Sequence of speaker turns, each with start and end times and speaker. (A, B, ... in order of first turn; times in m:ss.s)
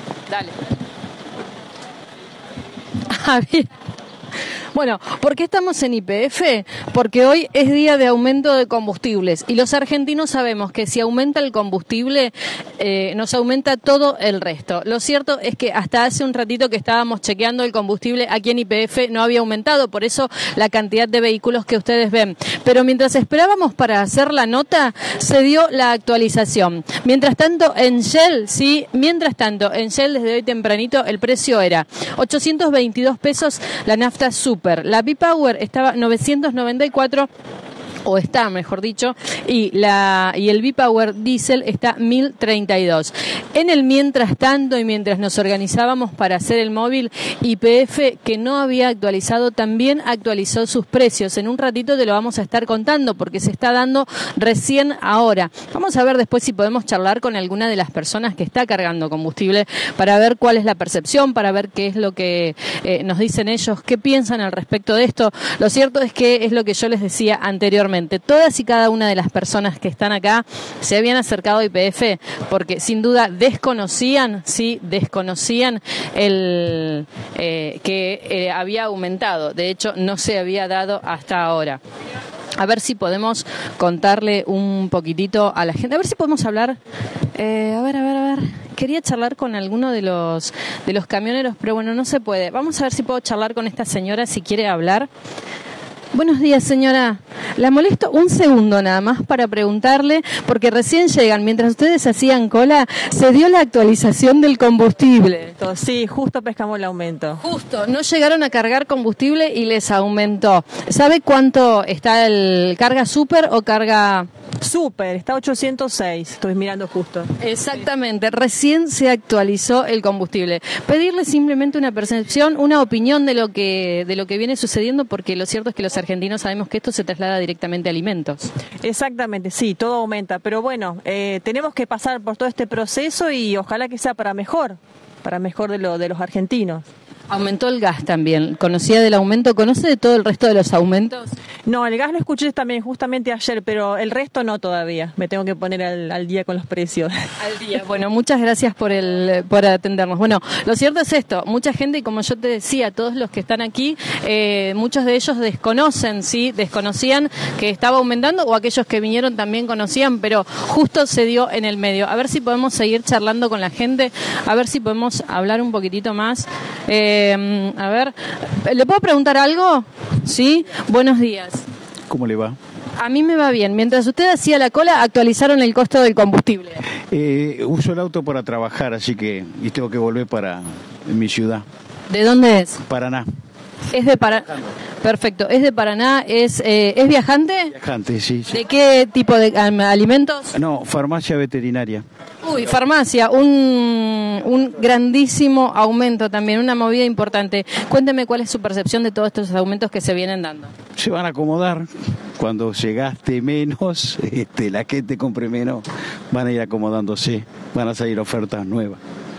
0:00.3-0:00.5 A
0:03.0-0:03.7 A
0:04.7-0:37.3 A
0:38.0-1:21.8 A
1:22.6-1:26.8 A
1:27.3-1:35.1 A
1:36.1-1:45.6 A
1:45.6-1:47.4 B
1:47.4-1:54.3 A
1:54.6-1:57.3 B
1:57.4-2:08.5 A
2:08.8-2:16.8 B
2:17.3-2:21.3 A
2:21.7-2:27.1 B
2:27.4-2:51.6 A
2:52.1-2:52.6 C
2:53.0-2:56.9 A
2:57.1-3:01.6 C
3:02.1-3:02.8 A
3:02.8-3:03.3 C
3:03.9-3:07.8 A
3:07.7-3:08.6 C
3:08.5-3:10.5 A
3:10.5-3:12.0 C
3:12.4-3:20.7 A
3:21.0-3:29.0 C